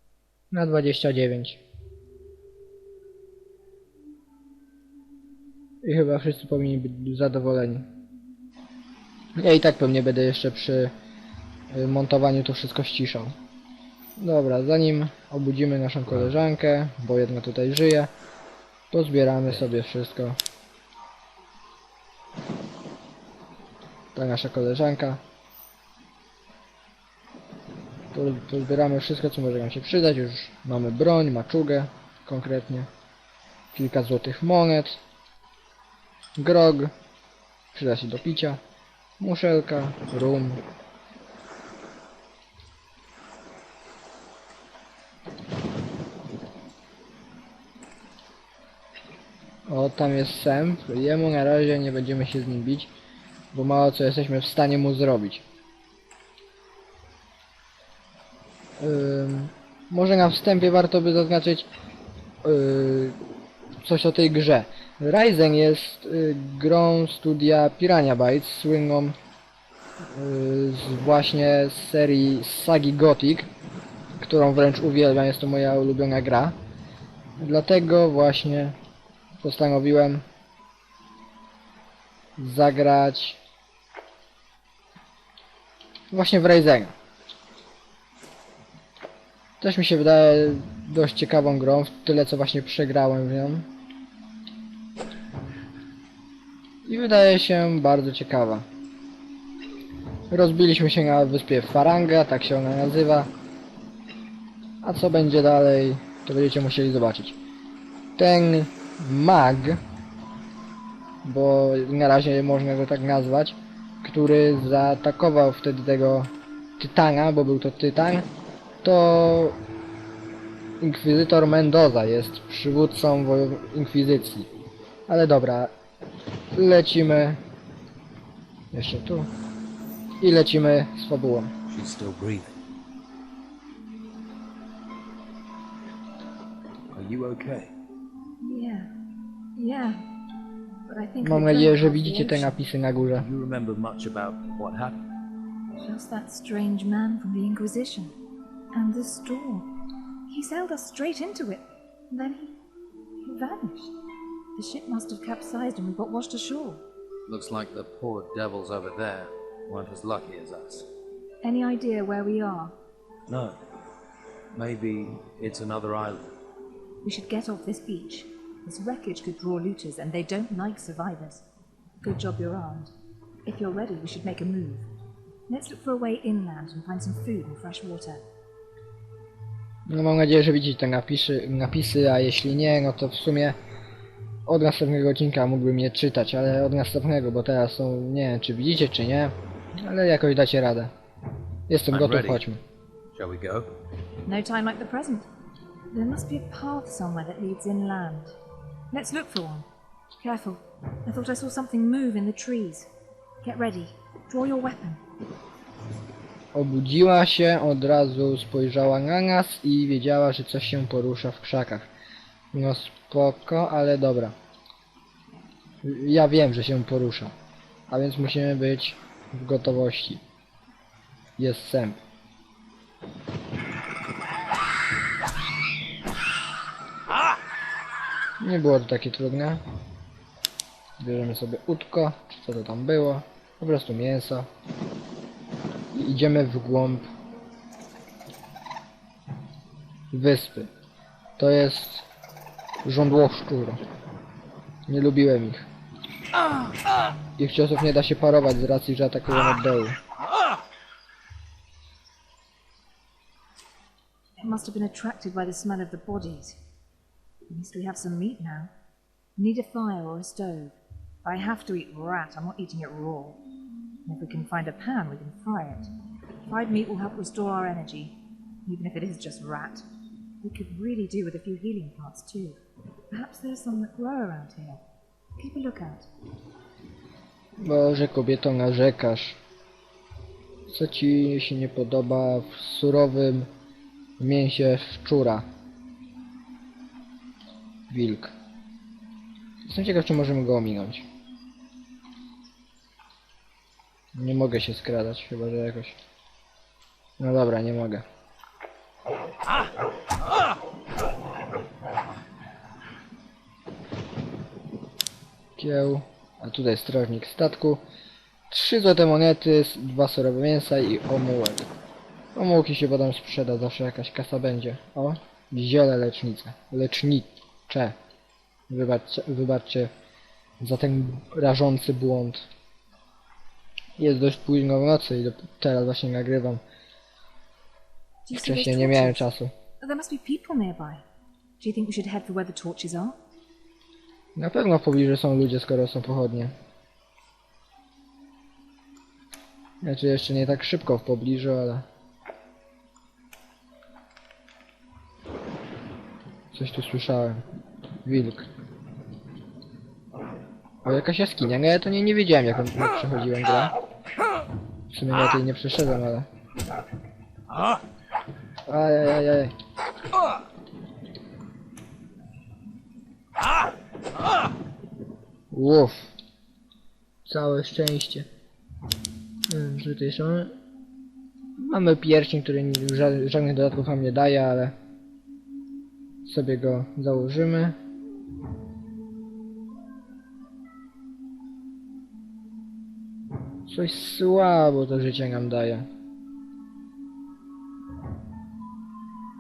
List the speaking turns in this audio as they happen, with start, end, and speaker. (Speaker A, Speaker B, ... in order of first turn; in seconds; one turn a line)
Speaker A: 0.5-1.6
Speaker A: 5.8-7.9
Speaker A: 9.4-10.9
Speaker A: 11.7-13.3
Speaker A: 14.2-18.1
Speaker A: 18.9-20.4
Speaker A: 24.1-25.2
Speaker A: 28.1-32.9
Speaker A: 33.7-35.0
Speaker A: 36.4-36.9
Speaker A: 37.7-38.6
Speaker A: 39.2-40.6
Speaker A: 49.7-52.9
Speaker A: 53.5-55.4
Speaker A: 58.8-61.7
Speaker A: 62.4-63.2
Speaker A: 63.8-69.2
Speaker A: 70.1-73.5
Speaker A: 74.2-76.6
Speaker A: 77.4-78.8
Speaker A: 79.4-80.2
Speaker A: 82.4-83.4
Speaker A: 86.1-86.9
Speaker A: 89.6-93.7
Speaker A: 96.8-98.7
Speaker A: 100.3-103.3
Speaker A: 104.8-107.4
Speaker A: 108.2-109.8
Speaker A: 111.2-118.3
Speaker A: 118.8-119.6
Speaker A: 120.8-124.5
Speaker A: 125.1-125.7
Speaker A: 126.5-127.4
Speaker A: 128.7-129.3
Speaker A: 130.2-131.5
Speaker B: 131.7-132.6
Speaker B: 136.9-137.7
Speaker C: 138.4-138.9
Speaker C: 139.6-140.0
Speaker C: 140.9-142.6
Speaker A: 141.2-143.3
Speaker B: 143.2-145.0
Speaker C: 145.8-148.1
Speaker C: 148.7-149.7
Speaker C: 150.3-152.6
Speaker C: 153.2-153.9
Speaker C: 154.6-156.8
Speaker B: 157.3-160.9
Speaker C: 161.4-162.7
Speaker B: 163.3-163.6
Speaker B: 164.5-166.3
Speaker C: 167.0-171.4
Speaker C: 172.0-172.9
Speaker C: 173.4-174.9
Speaker C: 175.5-178.2
Speaker A: 179.9-183.6
Speaker A: 184.5-190.9
Speaker A: 191.7-192.6
Speaker B: 191.9-192.4
Speaker B: 193.1-193.7
Speaker C: 194.3-195.3
Speaker C: 195.9-198.4
Speaker C: 198.9-202.9
Speaker C: 203.4-205.0
Speaker A: 206.5-211.9
Speaker A: 212.5-214.3
Speaker A: 215.8-217.3
Speaker A: 217.9-220.2
Speaker A: 221.4-222.0
Speaker A: 228.4-229.6
Speaker A: 231.0-234.5
Speaker A: 235.9-237.1
Speaker A: 240.1-240.7
Speaker A: 241.4-242.1
Speaker A: 242.8-243.8
Speaker A: 244.9-245.7
Speaker A: 247.4-250.0
Speaker C: 254.4-256.6
Speaker C: 257.5-258.7
Speaker C: 259.4-263.4
Speaker C: 264.1-265.9
Speaker C: 266.5-269.9
Speaker C: 270.4-272.6
Speaker C: 273.1-274.8
Speaker C: 275.4-276.1
Speaker A: 277.6-279.4
Speaker A: 280.7-283.5
Speaker A: 284.2-285.4
Speaker A: 287.9-288.3
Speaker A: 289.6-291.1
Speaker A: 294.1-296.0
Speaker A: 297.2-298.1
Speaker A: 305.6-307.8
Speaker A: 308.5-311.7
Speaker A: 312.4-318.0
Speaker A: 318.7-319.9
Speaker A: 320.6-322.5
Speaker A: 324.0-326.6
Speaker C: 328.3-329.3
Speaker A: 328.3-329.5
Speaker C: 329.8-331.0
Speaker C: 331.6-333.2
Speaker A: 334.4-336.5
Speaker A: 339.8-341.9
Speaker A: 346.5-347.4
Speaker A: 348.1-348.5
Speaker A: 350.8-353.7
Speaker A: 354.9-356.3
Speaker A: 358.7-359.5
Speaker A: 365.5-366.1
Speaker A: 367.3-368.3
Speaker A: 369.5-370.5
Speaker A: 371.6-374.7
Speaker A: 376.2-377.8
Speaker A: 383.7-385.9